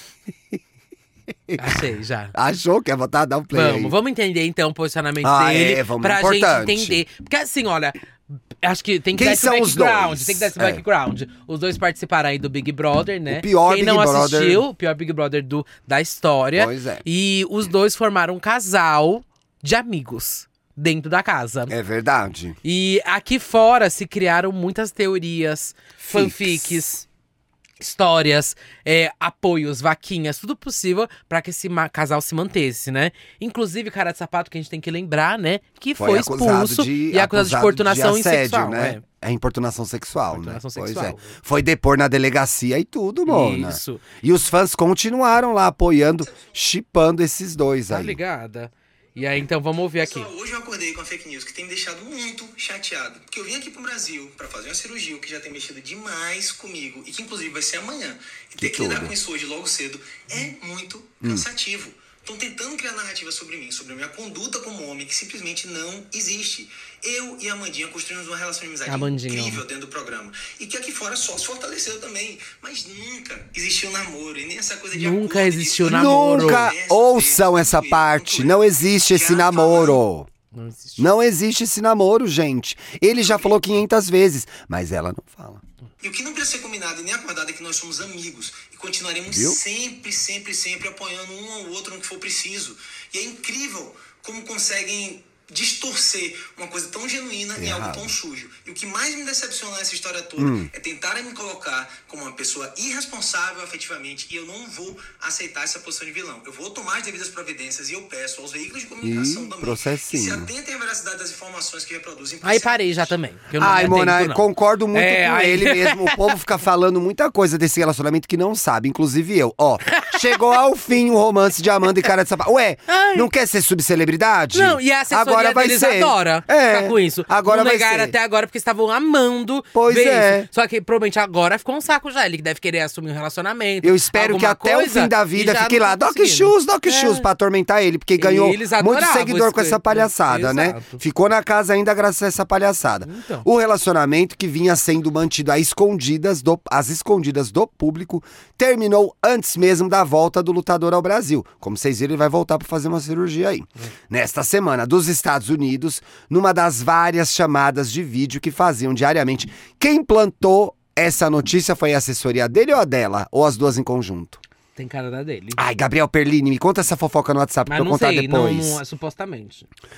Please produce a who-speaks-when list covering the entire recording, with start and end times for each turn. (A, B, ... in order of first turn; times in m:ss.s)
0:01.5-0:01.7 A
0:01.6-0:02.3 B
0:02.3-0:03.9 A
0:03.5-0:08.0 B
0:05.2-0:07.0 A
0:08.6-0:21.7 B
0:09.2-0:10.8 A
0:13.3-0:14.6 A
0:16.6-0:17.0 A
0:21.7-0:22.6 A
0:22.6-0:27.0 B
0:26.0-0:26.8 A
0:27.8-0:39.0 B
0:36.0-0:48.2 A
0:40.3-0:41.4 B
0:43.2-0:44.0 B
0:47.9-0:50.3 B
0:50.0-1:20.0 C
0:58.6-0:59.1 A
1:08.8-1:09.6 B
1:14.9-1:16.7 B
1:15.8-1:20.3 A
1:20.5-1:21.1 B
1:21.0-1:25.6 A
1:26.0-1:53.1 C
1:29.3-1:29.6 A
1:37.6-1:38.1 A
1:40.4-1:40.7 A
1:49.0-1:50.5 A
1:52.4-1:56.3 B
1:53.6-2:08.1 A
1:59.9-2:00.4 B
2:02.9-2:03.3 B
2:04.5-2:17.2 B
2:09.7-2:10.5 A
2:13.8-2:44.4 A
2:18.2-2:21.0 B
2:23.0-2:23.4 B
2:44.8-2:45.6 B
2:45.6-2:48.8 A
2:47.7-2:49.7 B